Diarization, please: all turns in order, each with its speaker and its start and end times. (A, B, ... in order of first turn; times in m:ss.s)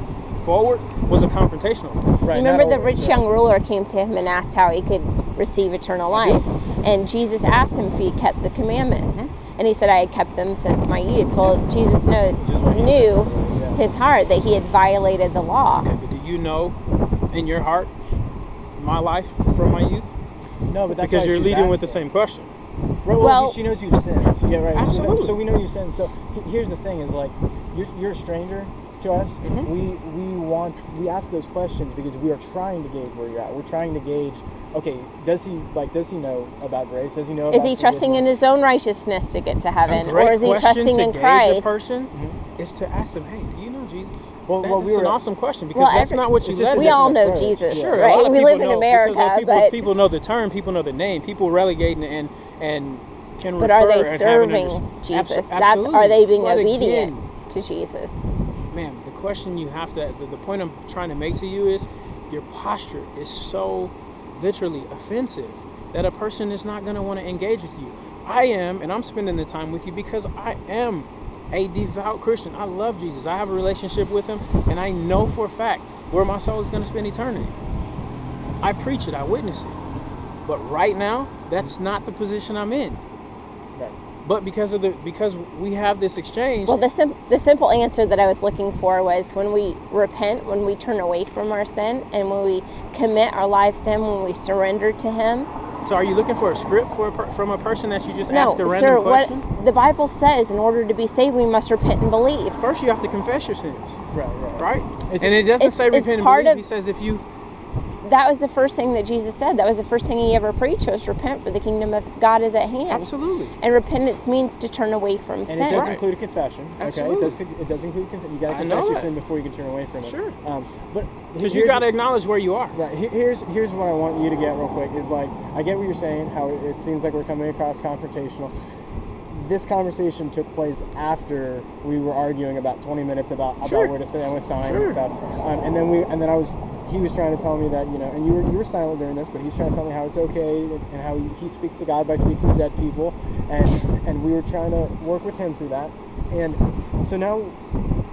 0:00.3-0:02.0 A
0:02.2-0:03.2 B
0:02.3-0:15.9 C
0:06.1-0:06.5 A
0:12.4-0:13.8 B
0:15.8-0:16.8 A
0:17.3-0:17.9 A
0:18.8-0:20.1 A
0:20.7-0:22.0 B
0:20.9-0:22.5 A
0:23.0-0:38.3 B
0:23.2-0:23.6 C
0:24.7-0:25.4 A
0:29.4-0:29.7 A
0:37.5-0:41.8 C
0:39.8-0:47.2 A
0:42.1-0:42.4 B
0:44.4-0:45.2 B
0:45.7-0:49.8 C
0:46.4-0:48.1 B
0:47.7-0:57.2 A
0:53.6-0:58.3 C
0:58.7-1:17.6 A
1:18.6-1:19.8 A
1:20.4-1:23.0 A
1:24.2-1:26.8 A
1:26.6-1:35.5 C
1:35.8-1:39.4 A
1:38.3-1:42.6 C
1:42.5-1:44.0 A
1:44.1-1:45.5 B
1:44.6-1:47.2 A
1:45.6-1:46.6 C
1:48.0-1:56.0 C
1:52.9-1:53.6 A
1:55.5-2:01.9 B
1:56.8-1:57.4 A
1:58.5-1:59.1 A
2:00.0-2:00.4 A
2:01.4-2:02.8 A
2:02.7-2:08.5 B
2:09.3-2:27.6 B
2:13.6-2:13.9 A
2:14.6-2:15.0 A